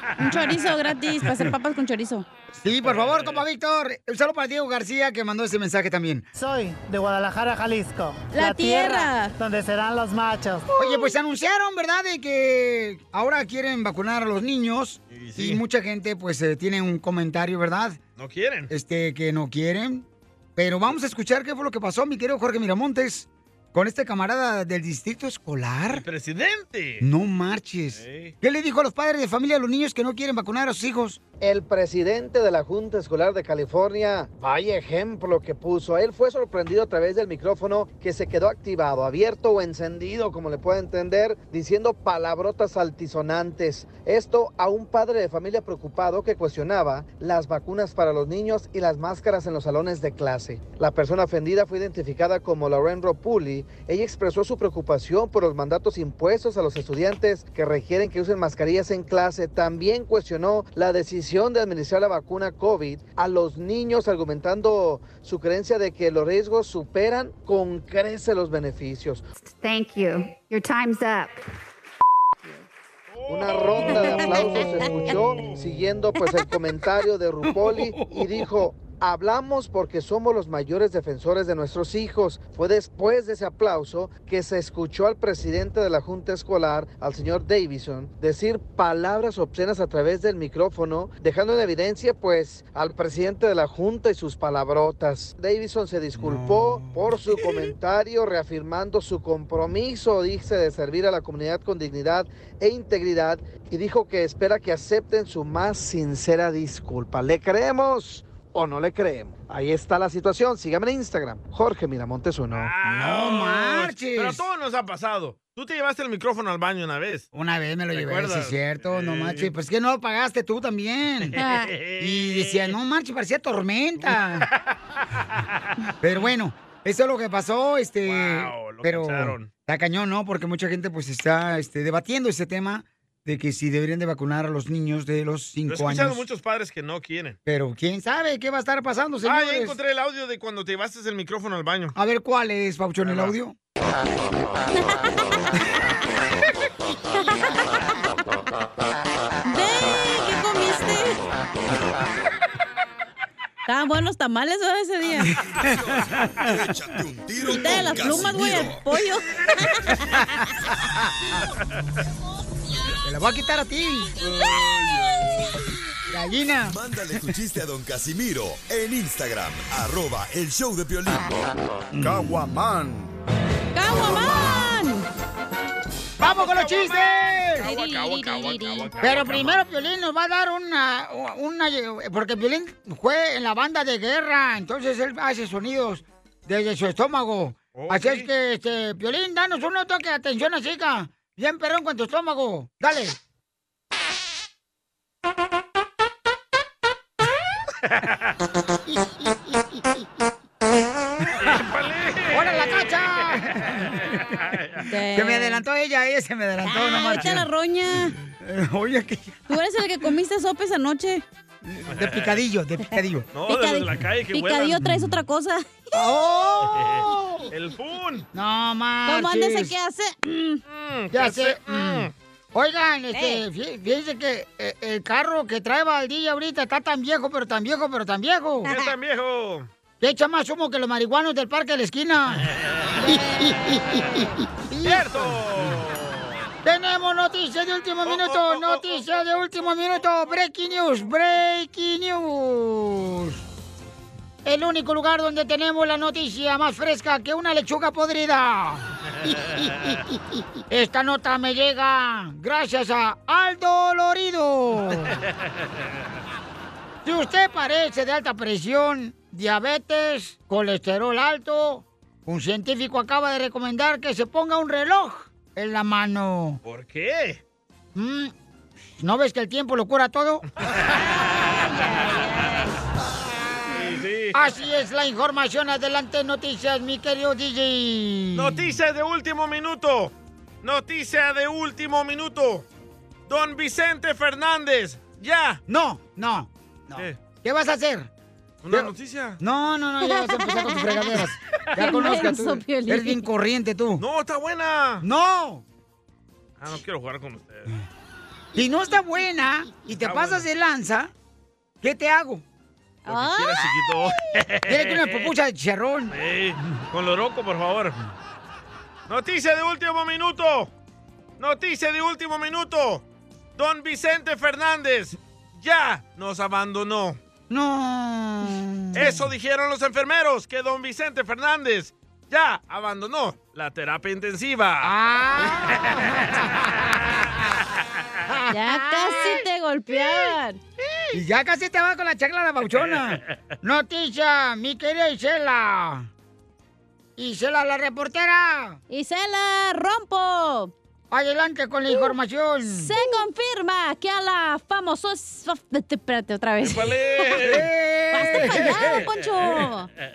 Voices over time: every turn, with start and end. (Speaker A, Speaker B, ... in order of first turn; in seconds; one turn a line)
Speaker A: 0.2-2.3
Speaker B: 2.5-6.3
Speaker C: 2.8-3.5
Speaker D: 6.3-10.7
Speaker A: 8.3-9.3
Speaker B: 10.8-18.0
Speaker C: 15.1-15.6
Speaker C: 18.2-18.7
Speaker B: 18.7-26.0
Speaker C: 25.9-27.1
Speaker B: 27.0-31.2
Speaker C: 27.9-28.3
Speaker E: 31.4-69.2
Speaker F: 69.4-71.3
Speaker C: 73.1-75.6
Speaker E: 73.3-112.7
Speaker B: 77.9-78.2
Speaker B: 96.2-97.0
Speaker C: 112.5-117.3
Speaker B: 112.8-114.4
Speaker B: 117.3-121.4
Speaker C: 117.9-119.5
Speaker C: 121.3-122.8
Speaker A: 121.4-121.7
Speaker B: 122.0-124.5
Speaker C: 124.0-124.7
Speaker B: 126.0-136.2
Speaker C: 128.0-129.5
Speaker C: 135.7-137.4
Speaker B: 137.5-139.8
Speaker C: 139.2-142.0
Speaker B: 141.9-143.6
Speaker C: 143.0-143.4
Speaker A: 147.2-147.6
Speaker A: 149.4-151.2
Speaker A: 153.7-155.3
Speaker B: 155.2-155.7
Speaker G: 155.6-158.8
Speaker A: 157.4-160.0
Speaker B: 157.6-158.7
Speaker B: 160.2-161.5
Speaker B: 163.0-164.2
Speaker B: 166.1-167.2
Speaker G: 166.7-171.3
Speaker B: 171.9-172.4
Speaker A: 173.8-175.1
Speaker B: 176.2-177.7
Speaker C: 176.2-179.6
Speaker A: 177.6-178.9
Speaker B: 179.0-193.2
Speaker C: 187.7-188.3
Speaker C: 201.4-204.9
Speaker B: 202.3-204.2
Speaker A: 204.9-205.6
Speaker B: 205.1-207.5
Speaker A: 206.7-208.2
Speaker B: 208.4-209.6
Speaker A: 209.5-211.2
Speaker B: 211.6-213.3
Speaker C: 211.9-212.4
Speaker C: 213.3-214.9
Speaker A: 213.5-215.7
Speaker B: 215.9-217.5
Speaker C: 216.7-218.3
Speaker B: 218.3-219.8
Speaker A: 219.1-220.6
Speaker C: 220.7-222.1
Speaker B: 221.1-228.7
Speaker A: 223.1-223.4
Speaker C: 228.7-229.7
Speaker B: 230.0-232.5
Speaker B: 233.0-235.8
Speaker A: 233.1-233.5
Speaker C: 234.8-236.4
Speaker B: 236.6-243.4
Speaker C: 238.0-239.4
Speaker B: 244.4-249.3
Speaker B: 250.7-255.2
Speaker B: 257.0-266.6
Speaker C: 266.6-267.4
Speaker B: 267.9-268.3
Speaker B: 269.0-270.5
Speaker C: 270.9-272.2
Speaker A: 271.2-272.7
Speaker C: 273.7-274.4
Speaker B: 274.3-278.7
Speaker C: 278.3-282.6
Speaker C: 283.3-285.6
Speaker B: 285.7-288.1
Speaker C: 288.6-289.4
Speaker B: 288.7-294.0
Speaker A: 290.1-291.2
Speaker A: 291.8-293.3
Speaker C: 294.0-295.1
Speaker B: 295.0-295.6
Speaker C: 296.6-297.7
Speaker B: 298.6-301.1
Speaker C: 299.9-300.5
Speaker B: 301.8-302.4
Speaker A: 303.1-303.6
Speaker C: 303.1-305.3
Speaker B: 304.7-306.7
Speaker C: 306.1-308.0
Speaker C: 309.1-310.7
Speaker C: 311.4-313.0
Speaker C: 313.6-317.2
Speaker B: 317.5-319.3
Speaker C: 318.9-326.4
Speaker B: 324.8-326.9
Speaker B: 328.3-330.4
Speaker A: 328.5-330.6
Speaker B: 331.1-336.1
Speaker C: 332.6-333.2
Speaker B: 337.2-338.8
Speaker A: 338.9-340.7
Speaker B: 341.1-343.0
Speaker A: 342.6-347.6
Speaker C: 346.6-347.7
Speaker B: 347.4-349.1
Speaker A: 348.1-349.9
Speaker C: 348.6-349.1